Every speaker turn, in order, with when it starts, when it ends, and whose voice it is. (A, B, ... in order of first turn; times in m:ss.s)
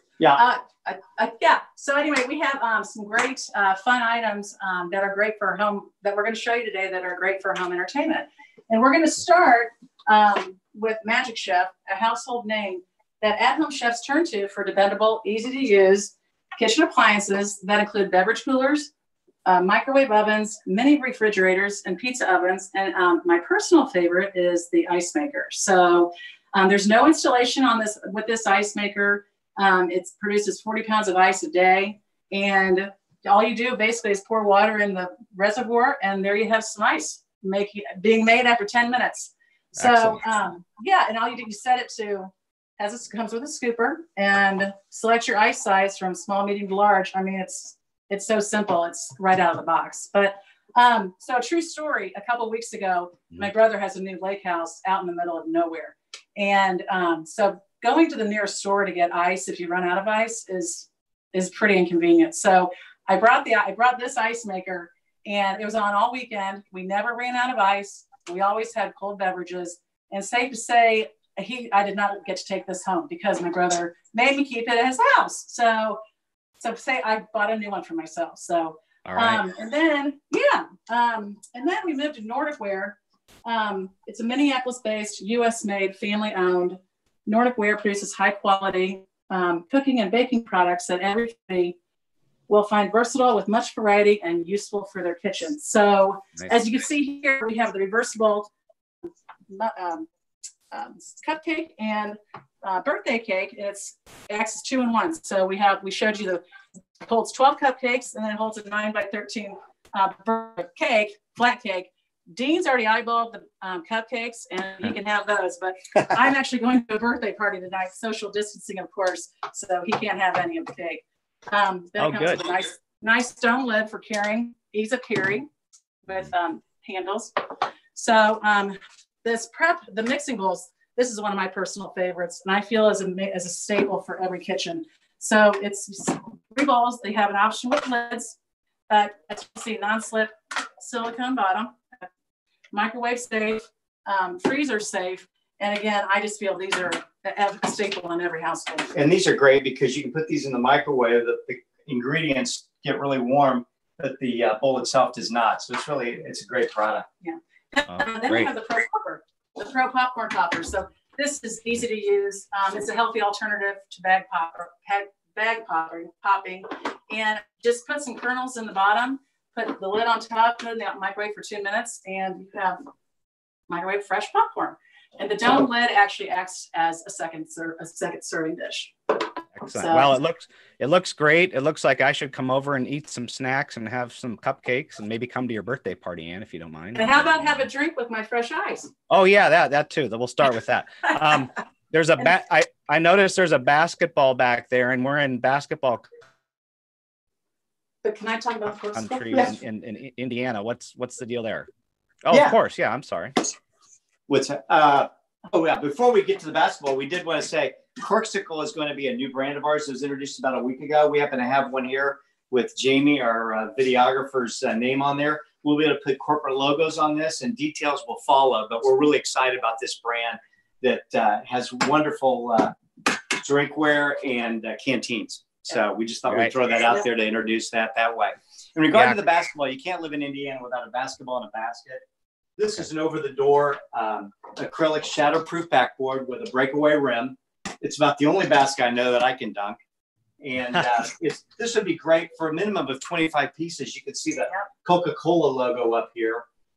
0:00.4-0:18.9 A
0:19.5-1:16.0 A
0:39.8-0:40.2 B
1:16.6-1:31.8 A
1:19.1-1:19.4 B
1:32.5-1:38.5 A
1:39.5-1:40.1 A
1:40.7-1:46.4 A
1:47.0-2:05.5 A
2:02.0-2:02.4 B
2:06.1-2:07.4 A
2:07.9-2:18.4 A
2:18.9-2:22.1 A
2:22.7-2:28.9 A
2:29.0-2:37.1 C
2:37.2-2:52.8 A
2:37.9-2:38.5 B
2:53.7-3:00.1 A
2:59.6-3:07.6 B
3:07.0-3:08.9 A
3:09.1-3:16.1 B
3:18.0-3:19.6 A
3:18.9-3:21.7 B
3:22.3-3:23.4 B
3:22.3-3:22.6 C
3:24.3-3:52.0 C
3:46.3-3:46.5 B
3:48.9-3:49.2 B
3:52.6-3:59.8 C
4:00.4-4:06.4 C